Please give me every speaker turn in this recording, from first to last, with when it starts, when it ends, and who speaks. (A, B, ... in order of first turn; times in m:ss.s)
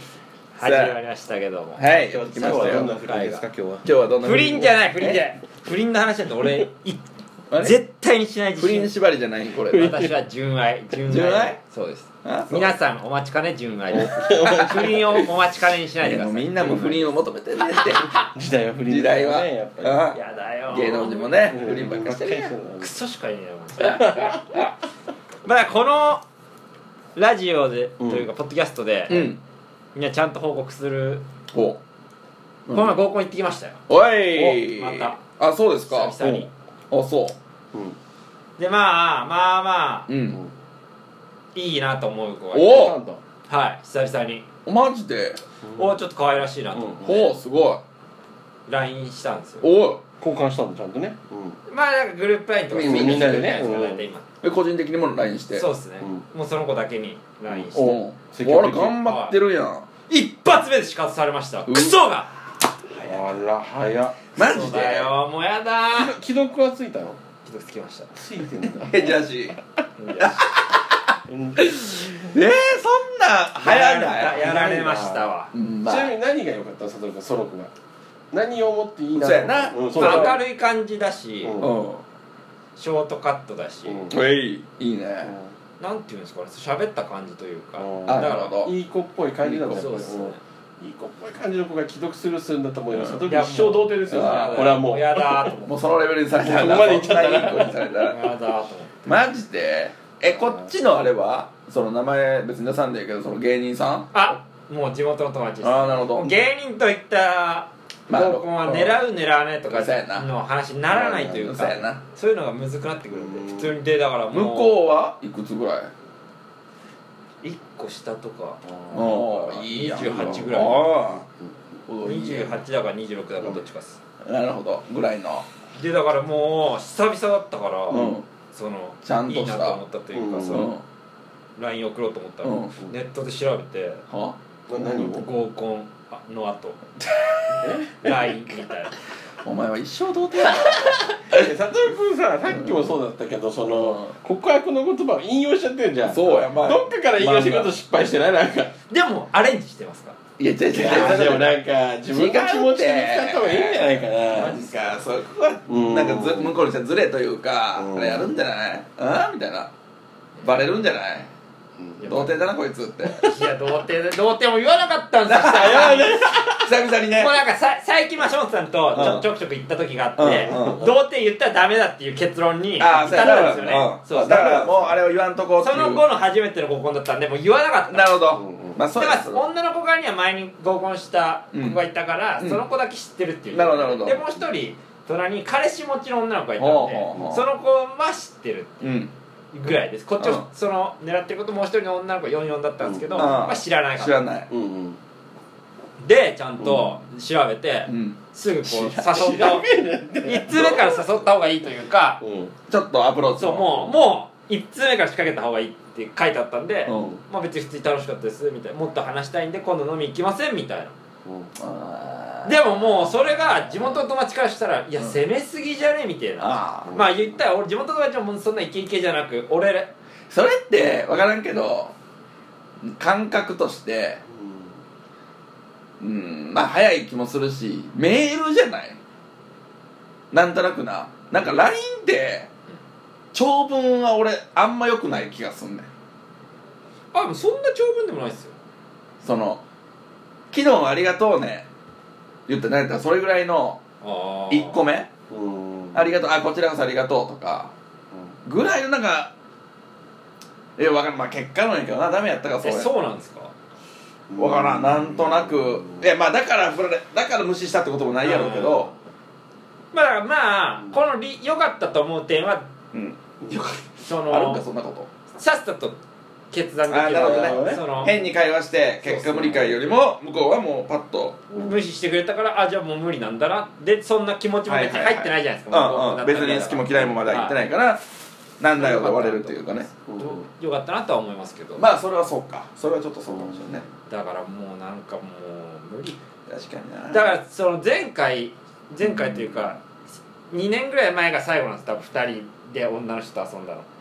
0:00.5-0:03.5 A
0:00.6-0:01.0 B
0:01.8-0:03.0 B
0:02.2-0:03.8 C
0:03.8-0:05.2 B
0:04.2-0:07.0 A
0:07.5-0:07.8 B
0:07.6-0:08.9 A
0:08.6-0:10.0 B
0:09.7-0:10.1 C
0:09.7-0:17.0 A
0:11.1-0:11.6 B
0:12.2-0:12.7 B
0:13.9-0:15.3 C
0:16.0-0:18.1 B
0:18.3-0:20.1 C
0:18.9-0:20.2 B
0:20.1-0:21.5 A
0:20.7-0:22.5 B
0:21.4-0:22.9 C
0:22.8-0:24.6 A
0:23.8-0:24.4 C
0:25.4-0:26.2 A
0:27.2-0:29.3 A
0:28.0-0:28.3 C
0:29.1-0:29.4 B
0:29.9-0:31.2 A
0:31.5-0:31.8 B
0:32.7-0:33.0 B
0:32.7-0:35.2 A
0:33.9-0:36.2 B
0:35.8-0:36.5 A
0:36.9-0:37.4 B
0:38.6-0:40.1 A
0:40.1-0:40.4 B
0:41.5-0:42.9 A
0:42.5-0:43.0 B
0:42.6-0:43.2 C
0:43.5-0:44.4 A
0:44.6-0:45.4 B
0:45.7-0:47.3 A
0:46.7-0:47.1 C
0:47.0-0:47.8 B
0:48.7-0:49.6 A
0:49.6-0:50.0 B
0:50.2-0:51.6 C
0:51.7-0:54.2 A
0:52.7-0:53.6 B
0:52.7-0:54.0 C
0:54.4-0:55.7 B
0:55.5-0:58.0 A
0:57.7-0:59.0 C
0:57.7-0:59.9 B
0:59.0-0:59.3 A
1:00.1-1:03.2 A
1:01.6-1:01.9 B
1:03.0-1:04.2 C
1:04.3-1:05.1 B
1:04.4-1:06.2 A
1:05.9-1:07.2 C
1:07.4-1:08.2 A
1:08.1-1:09.2 C
1:08.8-1:09.6 B
1:10.0-1:10.5 A
1:10.2-1:14.4 B
1:11.3-1:12.3 C
1:13.6-1:15.5 A
1:14.1-1:15.3 C
1:15.5-1:16.1 B
1:15.8-1:17.7 C
1:18.3-1:20.4 C
1:19.1-1:20.4 B
1:20.0-1:21.6 A
1:21.4-1:21.7 C
1:21.6-1:22.0 B
1:22.8-1:24.1 A
1:23.8-1:24.1 C
1:24.1-1:25.3 B
1:25.2-1:25.5 C
1:25.8-1:28.6 A
1:27.8-1:35.6 C
1:28.1-1:28.7 B
1:29.4-1:29.9 B
1:29.7-1:30.4 A
1:32.9-1:33.2 B
1:33.2-1:35.8 A
1:34.1-1:34.8 B
1:35.6-1:38.2 B
1:36.4-1:38.1 C
1:37.9-1:39.1 A
1:39.0-1:44.3 B
1:44.1-1:54.7 A
1:45.6-1:46.3 B
1:48.1-1:49.0 B
1:49.7-1:50.3 B
1:50.9-1:52.0 B
1:53.1-1:53.7 C
1:54.3-1:55.9 B
1:57.4-2:00.9 A
1:58.9-2:01.2 B
2:00.0-2:00.5 C
2:01.9-2:02.6 B
2:02.0-2:04.0 A
2:04.2-2:05.4 B
2:05.7-2:10.7 A
2:07.9-2:08.2 B
2:09.0-2:09.8 B
2:10.1-2:10.7 C
2:10.5-2:10.8 B
2:11.6-2:14.0 A
2:12.4-2:12.7 B
2:14.1-2:15.1 B
2:14.7-2:15.3 C
2:15.0-2:18.9 A
2:17.6-2:18.2 C
2:19.4-2:21.5 B
2:20.7-2:28.7 C
2:22.5-2:22.8 B
2:23.8-2:24.1 B
2:26.0-2:27.7 B
2:28.9-2:30.2 A
2:30.4-2:31.5 B
2:30.8-2:34.6 C
2:30.8-2:31.4 A
2:32.1-2:39.7 B
2:34.4-2:35.0 A
2:35.7-2:36.6 C
2:37.7-2:38.3 C
2:40.4-2:41.3 B
2:41.8-2:42.0 C
2:42.0-2:42.3 A
2:42.0-2:43.3 B
2:43.1-2:43.5 C
2:43.1-2:46.4 A
2:45.3-2:47.4 B
2:47.1-2:55.0 A
2:48.9-2:49.3 B
2:50.2-2:50.9 B
2:52.8-2:56.0 B
2:55.6-2:58.3 A
2:57.9-2:59.4 B
2:58.3-2:58.8 C
2:58.9-3:08.8 A
3:01.5-3:01.8 B
3:03.5-3:04.2 B
3:06.6-3:07.4 B
3:08.8-3:09.1 B
3:09.5-3:14.1 A
3:10.2-3:10.4 B
3:12.8-3:13.3 C
3:13.2-3:14.5 B
3:14.5-3:15.0 C
3:16.0-3:19.7 A
3:16.6-3:16.9 C
3:17.9-3:19.4 B
3:19.1-3:20.7 C
3:20.2-3:22.2 A
3:20.5-3:21.0 B
3:22.2-3:22.5 C
3:22.7-3:23.9 B
3:23.4-3:30.9 A
3:26.8-3:27.2 B
3:31.2-3:31.5 C
3:31.6-3:33.5 B
3:32.4-3:39.9 A
3:36.4-3:37.0 B
3:36.9-3:37.1 C
3:40.3-3:41.9 B
3:42.8-3:44.2 B
3:44.3-3:44.7 C
3:46.0-3:49.0 B
3:50.3-3:52.5 B
3:53.3-3:55.9 B
3:57.1-3:58.5 A
3:59.2-3:59.6 B
4:00.5-4:01.6 B
4:02.5-4:03.8 B
4:04.0-4:04.8 A
4:04.5-4:05.1 B
4:05.3-4:06.0 C
4:05.9-4:07.7 B
4:08.4-4:09.3 B
4:10.8-4:12.9 B
4:12.6-4:13.5 A
4:14.3-4:16.0 C
4:14.4-4:18.9 B
4:18.2-4:18.9 A
4:19.9-4:22.7 A
4:22.9-4:23.2 B
4:23.4-4:23.9 C
4:24.0-4:24.6 A
4:24.2-4:25.1 B
4:25.4-4:26.0 A
4:26.5-4:28.2 A
4:26.9-4:31.4 B
4:27.1-4:27.9 C
4:29.0-4:29.7 A
4:31.5-4:37.6 A
4:34.6-4:38.0 B
4:38.6-4:39.9 B
4:38.8-4:41.8 A
4:40.1-4:40.4 C
4:41.8-4:43.8 B
4:43.3-4:43.8 C
4:44.1-4:46.2 A
4:46.5-4:47.4 B
4:47.1-4:49.8 A
4:50.5-4:53.9 A